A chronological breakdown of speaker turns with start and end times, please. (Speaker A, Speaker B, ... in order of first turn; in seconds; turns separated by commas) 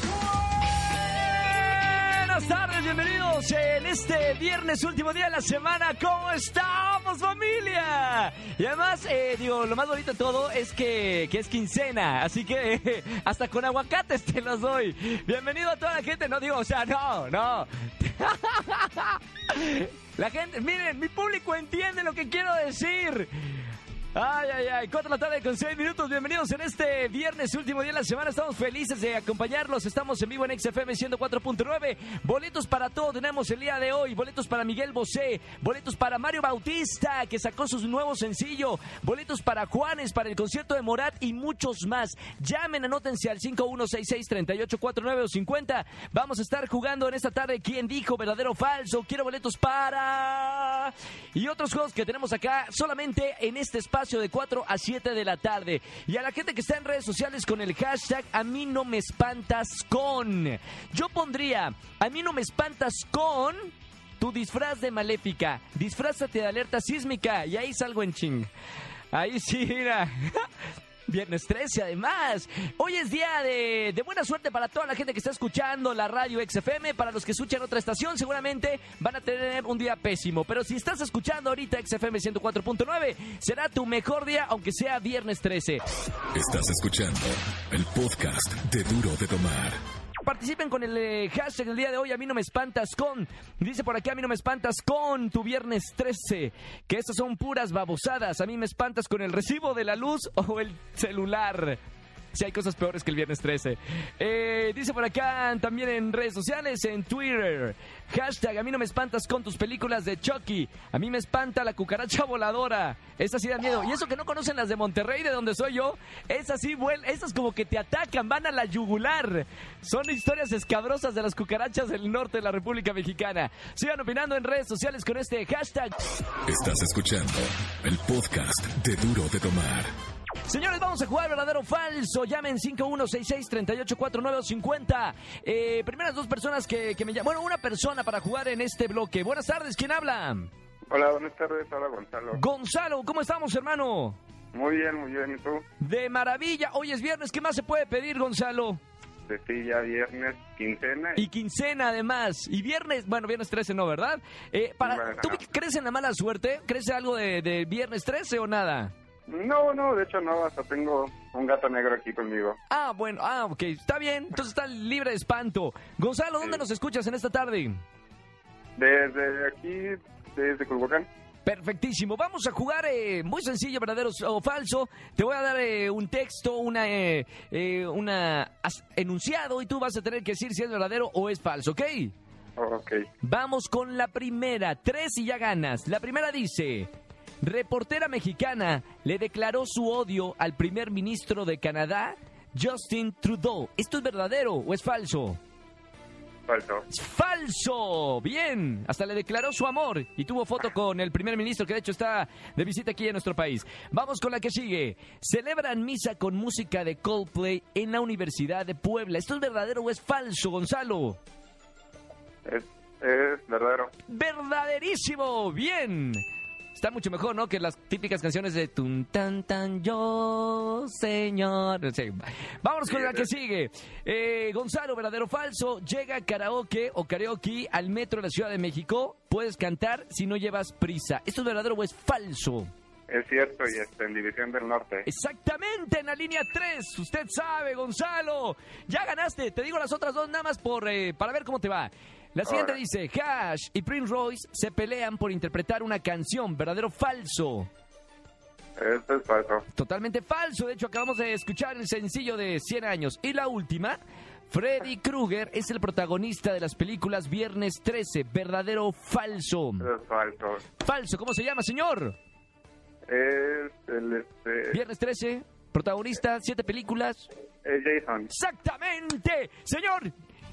Speaker A: 0.9-68.5, Speaker A: 69.1-70.5, Speaker A: 71.1-85.8, Speaker B: 86.3-89.8, Speaker A: 90.2-101.8, Speaker A: 102.3-126.0, Speaker B: 126.5-129.9, Speaker A: 130.5-140.5, Speaker C: 140.9-142.4, Speaker A: 142.3-144.2, Speaker C: 144.5-145.6, Speaker A: 145.8-148.8, Speaker C: 149.3-151.2, Speaker A: 151.2-158.9, Speaker C: 154.8-155.4, Speaker C: 159.3-162.6, Speaker A: 162.7-167.8, Speaker C: 168.8-171.1, Speaker A: 171.4-182.1, Speaker C: 182.6-183.0, Speaker A: 183.2-186.9, Speaker A: 187.4-195.4, Speaker C: 196.5-196.8, Speaker A: 196.9-211.2, Speaker C: 212.5-213.9, Speaker A: 214.1-216.2, Speaker A: 216.8-232.7, Speaker C: 222.9-223.2, Speaker C: 233.1-235.1, Speaker A: 235.1-247.7, Speaker C: 242.4-242.8, Speaker C: 248.8-249.6, Speaker A: 249.8-254.0, Speaker A: 254.5-259.9, Speaker C: 259.8-260.6, Speaker A: 260.8-262.1, Speaker C: 263.1-264.8, Speaker A: 264.7-267.3, Speaker C: 267.6-268.3, Speaker A: 268.3-270.1